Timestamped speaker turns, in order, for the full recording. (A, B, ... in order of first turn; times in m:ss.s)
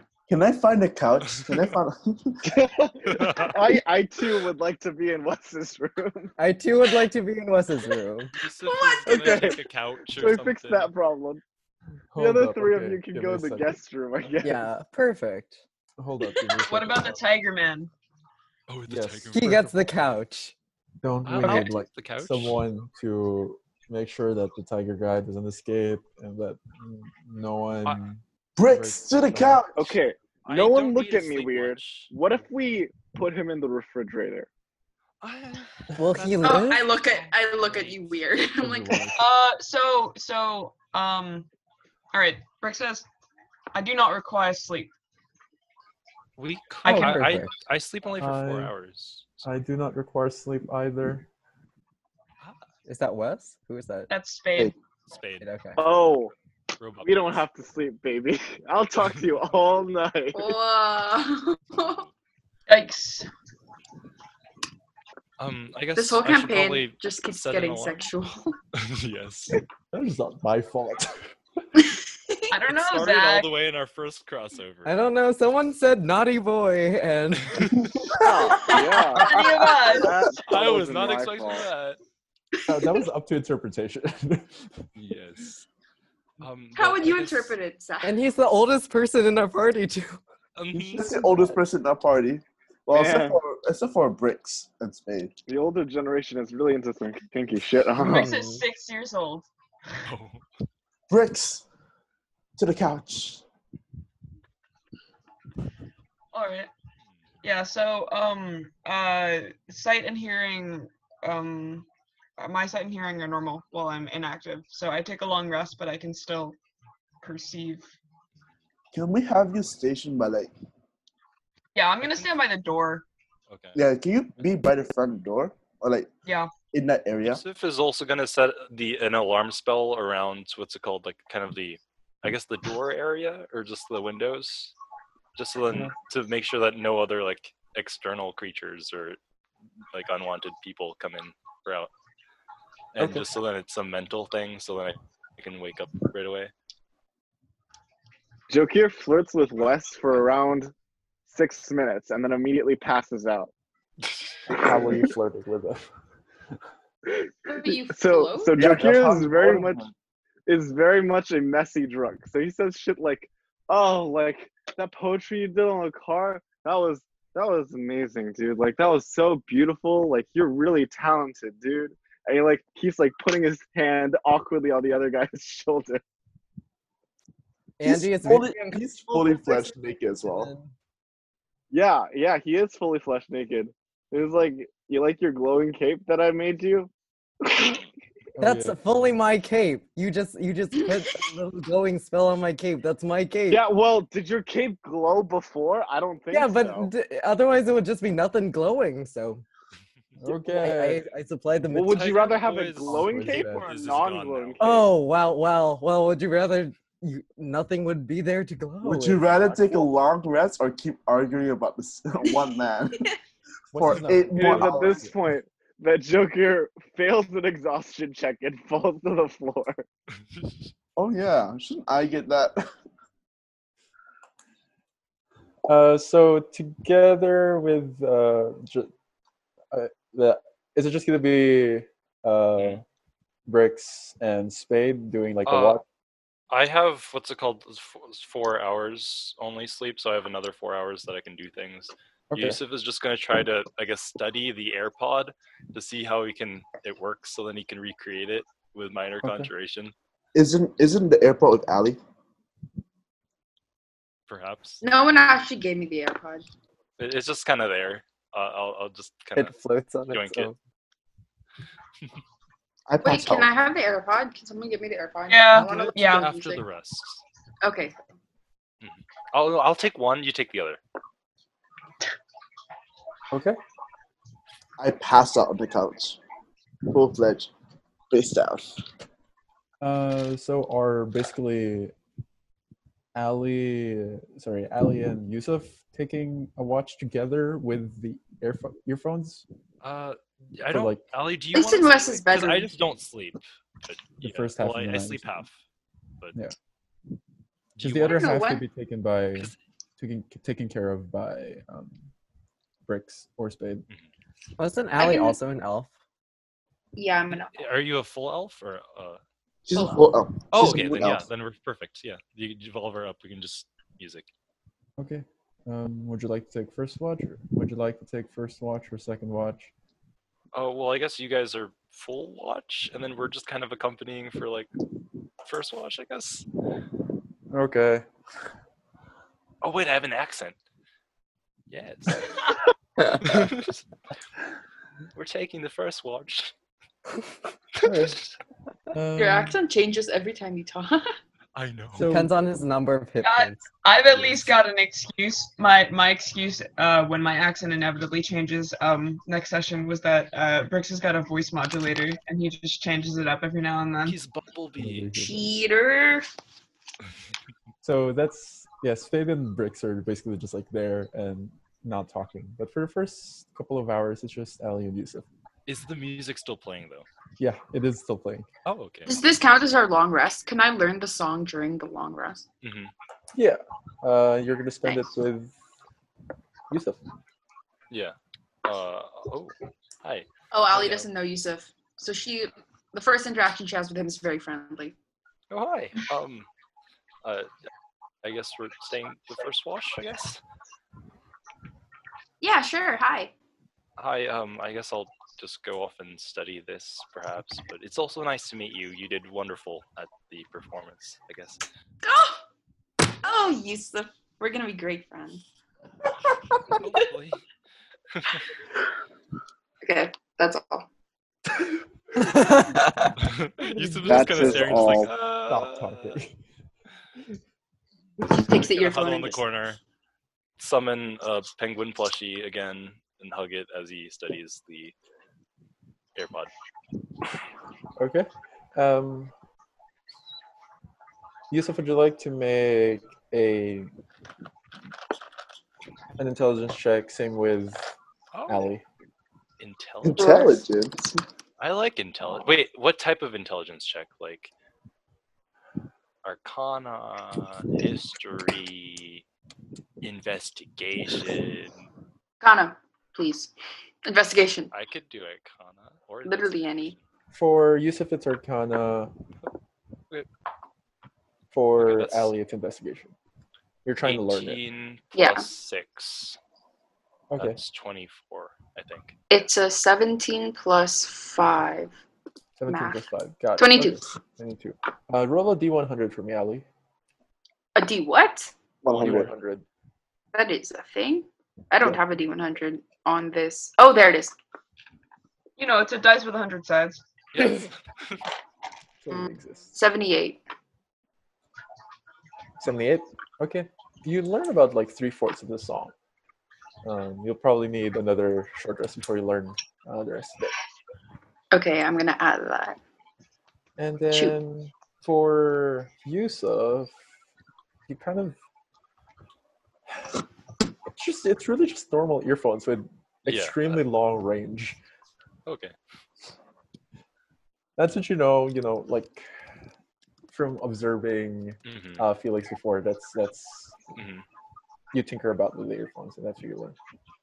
0:00.3-0:02.6 A
0:01.2-0:01.7 B
0:02.5-0:06.3 C
0:03.1-0:03.6 B
0:06.4-0:08.3 D
0:08.4-0:10.9 B
0:09.0-0:11.4 C
0:12.1-0:13.8 E
0:12.2-0:14.7 C
0:14.4-0:15.6 D
0:16.0-0:17.2 E
0:16.6-0:17.9 F
0:18.7-0:19.9 B
0:18.9-0:19.6 E
0:19.3-0:20.6 D
0:21.0-0:29.7 E
0:21.2-0:22.6 B
0:28.6-0:30.0 A
0:29.8-0:34.5 C
0:30.5-0:32.1 B
0:35.2-0:38.3 B
0:36.0-0:36.8 D
0:36.4-0:39.1 G
0:38.6-0:39.2 E
0:39.1-0:41.5 F
0:42.1-0:43.1 F
0:43.7-0:44.9 F
0:46.4-0:49.5 B
0:46.9-0:47.1 F
0:46.9-0:47.5 D
0:46.9-0:47.2 E
0:48.2-0:48.7 E
0:49.4-0:51.3 E
0:52.9-0:54.1 D
0:54.1-0:54.8 F
0:55.1-0:56.2 B
0:55.4-0:55.8 D
0:55.8-0:56.3 C
0:56.8-0:57.4 B
0:57.0-1:00.5 C
1:00.3-1:02.1 G
1:02.7-1:03.3 F
1:05.4-1:08.1 B
1:06.0-1:08.6 G
1:08.8-1:09.6 B
1:09.9-1:11.3 E
1:11.8-1:12.5 G
1:12.5-1:13.5 F
1:12.7-1:15.0 B
1:14.8-1:17.7 D
1:17.5-1:18.0 B
1:17.8-1:18.1 E
1:18.2-1:19.4 C
1:18.5-1:19.7 G
1:18.6-1:20.3 F
1:20.1-1:21.7 C
1:20.5-1:22.0 B
1:22.7-1:24.8 E
1:22.7-1:23.0 G
1:25.0-1:25.7 B
1:26.4-1:27.6 B
1:26.8-1:28.2 G
1:28.0-1:30.2 D
1:30.6-1:31.1 B
1:30.9-1:35.3 A
1:32.9-1:33.4 C
1:35.5-1:38.3 C
1:38.0-1:39.5 F
1:38.0-1:38.6 D
1:40.0-1:40.4 B
1:41.1-1:41.6 A
1:42.6-1:43.4 A
1:46.3-1:46.7 F
1:47.4-1:51.9 F
1:52.4-1:56.6 F
1:57.2-1:57.9 F
1:58.9-2:00.5 A
2:01.8-2:03.1 F
2:02.0-2:02.3 B
2:03.5-2:03.8 B
2:03.8-2:06.1 A
2:06.3-2:06.5 F
2:06.7-2:07.4 A
2:07.2-2:14.7 B
2:15.4-2:19.2 B
2:19.9-2:21.9 B
2:23.0-2:26.5 B
2:23.0-2:23.3 E
2:28.5-2:30.7 C
2:31.3-2:33.5 C
2:34.5-2:35.9 E
2:37.5-2:38.6 G
2:37.9-2:39.9 C
2:38.6-2:39.9 A
2:40.5-2:56.0 C
2:57.8-2:59.7 D
2:57.8-3:00.5 A
3:00.3-3:00.7 D
3:01.7-3:06.9 C
3:07.5-3:07.8 C
3:08.4-3:09.2 E
3:08.4-3:13.6 D
3:13.5-3:16.9 C
3:16.3-3:19.4 D
3:20.2-3:21.0 E
3:20.2-3:22.2 D
3:21.7-3:24.9 C
3:21.8-3:24.8 B
3:22.8-3:23.7 E
3:24.6-3:29.7 D
3:28.8-3:33.1 A
3:32.3-3:32.5 G
3:33.7-3:35.2 E
3:33.8-3:35.1 A
3:34.3-3:39.8 C
3:41.0-3:42.6 A
3:45.6-3:48.9 E
3:49.7-3:52.8 E
3:52.6-3:52.8 B
3:53.5-3:55.8 E
3:55.5-3:55.8 B
3:56.5-4:09.9 B
4:02.3-4:02.6 E
4:09.2-4:09.5 E
4:10.4-4:12.0 A
4:14.3-4:14.8 B
4:14.8-4:16.4 G
4:17.0-4:19.5 B
4:19.4-4:20.6 D
4:20.1-4:20.5 B
4:22.9-4:23.5 A
4:23.0-4:26.6 G
4:25.3-4:26.3 F
4:25.5-4:27.2 B
4:27.6-4:28.0 G
4:28.8-4:30.8 B
4:33.3-4:33.6 E
4:34.8-4:36.2 A
4:36.9-4:37.5 A
4:38.1-4:38.8 A
4:39.8-4:41.9 E
4:43.2-4:49.4 E
4:49.8-4:55.6 B
4:50.7-4:51.0 E
4:51.5-4:52.7 G
4:54.2-4:55.4 E
4:57.8-5:02.1 E
4:57.8-4:58.2 B
4:58.0-4:58.6 G
5:02.9-5:03.8 E
5:04.6-5:05.9 D
5:05.0-5:05.4 G
5:07.0-5:07.5 G
5:07.5-5:09.2 B
5:09.7-5:11.3 A
5:09.7-5:10.2 G
5:10.5-5:14.3 B
5:15.0-5:19.7 E
5:20.5-5:24.7 B
5:25.4-5:26.5 B
5:27.5-5:28.0 E
5:29.6-5:30.6 B
5:31.7-5:32.6 B
5:33.2-5:33.8 B
5:35.2-5:36.5 B
5:37.8-5:38.2 B
5:37.8-5:38.1 E
5:38.9-5:39.6 E
5:39.2-5:41.0 G
5:41.6-5:42.1 B
5:41.9-5:42.3 E
5:42.0-5:43.7 D
5:43.2-5:54.2 F
5:44.1-5:44.5 B
5:54.0-5:55.1 B
5:54.8-5:55.6 E
5:55.2-5:56.3 G
5:57.8-6:05.3 E
6:05.7-6:07.1 B
6:07.4-6:08.5 E
6:08.7-6:09.2 B
6:09.1-6:12.4 G
6:12.6-6:12.9 B
6:13.4-6:15.6 E
6:14.8-6:15.1 G
6:16.7-6:17.0 E
6:17.9-6:21.1 B
6:20.5-6:25.0 G
6:25.5-6:26.5 B
6:28.2-6:30.4 B
6:32.4-6:33.3 G
6:34.0-6:41.6 B
6:42.0-6:42.4 G
6:43.2-6:45.4 G
6:46.7-6:47.4 B
6:48.1-6:48.5 B
6:49.8-6:50.9 G
6:52.2-6:53.1 D
6:52.2-6:52.8 E
6:53.2-6:56.2 B
6:53.7-6:56.3 E
6:54.1-6:55.1 A
6:58.2-6:59.4 G
6:58.4-6:59.8 B
7:00.6-7:04.9 B
7:06.2-7:06.5 B
7:08.0-7:09.3 E
7:11.5-7:13.9 E
7:16.2-7:17.9 E
7:18.3-7:18.7 B
7:18.5-7:18.8 E
7:19.6-7:20.4 B
7:20.0-7:21.1 A
7:20.2-7:20.6 G
7:21.6-7:24.5 B
7:26.2-7:29.2 B
7:30.0-7:31.8 B
7:32.4-7:33.5 G
7:34.0-7:34.7 G
7:34.7-7:37.0 B
7:36.3-7:37.0 G
7:37.3-7:39.1 E
7:41.5-7:43.2 E
7:41.8-7:42.3 B
7:43.8-7:44.6 E
7:44.0-7:46.4 B
7:45.2-7:45.4 G
7:47.3-7:47.6 E
7:47.4-7:49.2 B
7:49.3-7:51.9 G
7:52.6-7:56.7 E
7:52.7-7:53.0 G
7:53.6-7:54.0 G
7:57.8-7:58.5 G
7:58.8-7:59.3 A
7:58.9-7:59.6 E
8:00.3-8:04.4 G
8:05.6-8:07.0 F
8:07.3-8:08.2 B
8:09.0-8:09.7 E
8:09.1-8:10.4 G
8:12.6-8:15.9 E
8:16.8-8:20.5 E
8:21.5-8:22.8 G
8:23.8-8:27.0 E
8:24.1-8:24.4 G
8:27.9-8:28.4 E
8:30.9-8:34.8 E
8:33.3-8:33.8 B
8:35.5-8:35.7 B
8:37.8-8:39.3 E
8:40.3-8:43.8 E
8:41.7-8:42.0 B
8:44.0-8:44.2 B
8:44.9-8:46.8 E